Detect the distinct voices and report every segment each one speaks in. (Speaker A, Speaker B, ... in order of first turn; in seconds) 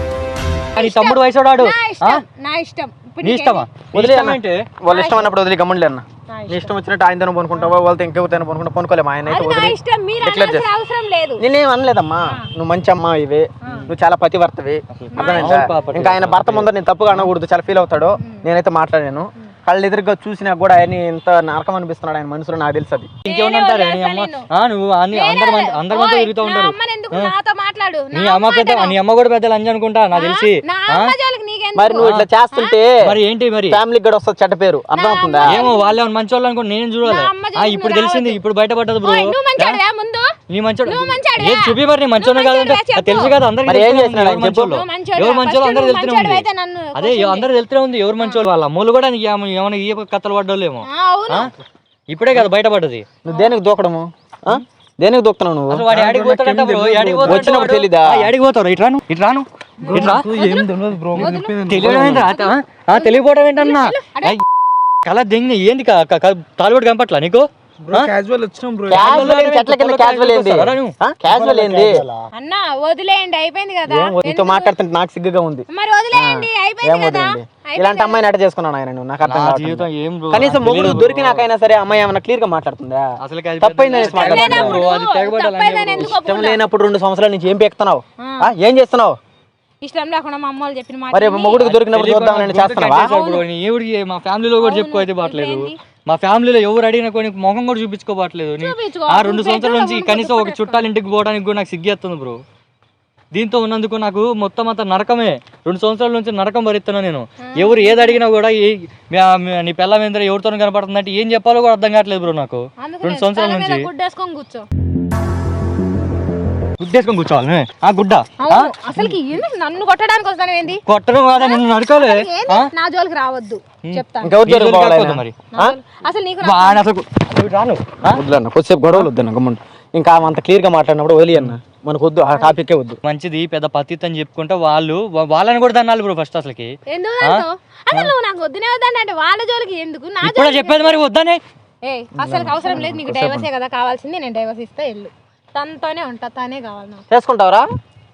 Speaker A: 0.8-3.7, 4.9-5.3, 6.3-6.7, 9.3-11.4, 15.1-15.8, 18.2-18.4, 23.3-24.5, 25.1-28.9, 30.1-32.8, 35.0-36.0, 37.0-38.4, 39.0-40.3, 40.9-43.3, 44.5-47.5, 50.8-51.5, 53.3-53.5, 59.8-64.4, 72.3-74.7, 75.7-78.2, 83.9-86.6, 88.2-88.5, 89.8-91.6, 92.9-93.4, 94.6-95.8, 98.6-100.8, 107.4-108.2, 112.8-114.7, 118.4-120.8, 121.4-124.4, 125.5-126.8, 136.9-141.0, 141.8-147.0
Speaker B: 0.8-2.2, 3.2-4.7, 14.9-16.7, 23.2-27.3, 28.1-31.1, 32.0-32.3, 33.0-33.8, 35.5-39.8, 40.5-46.4, 47.0-51.5, 52.1-53.0, 55.7-60.2, 61.2-64.4, 65.0-68.1, 68.9-71.0, 79.2-81.5, 83.2-86.1, 91.6-102.4, 103.3-113.9, 116.8-119.2, 120.9-122.7, 123.9-125.4, 126.4-128.2, 133.0-137.4, 140.2-141.4
Speaker C: 3.9-10.7, 11.4-23.1, 31.8-33.2, 33.7-35.6, 43.7-44.8, 53.2-55.8, 57.2-58.3, 68.9-72.0, 73.9-83.1, 83.6-84.8, 86.0-89.2, 91.1-93.1, 124.2-125.8, 128.1-133.0, 142.2-143.5, 147.1-147.7
Speaker D: 55.9-57.5, 59.8-62.3, 67.8-69.3, 71.3-72.2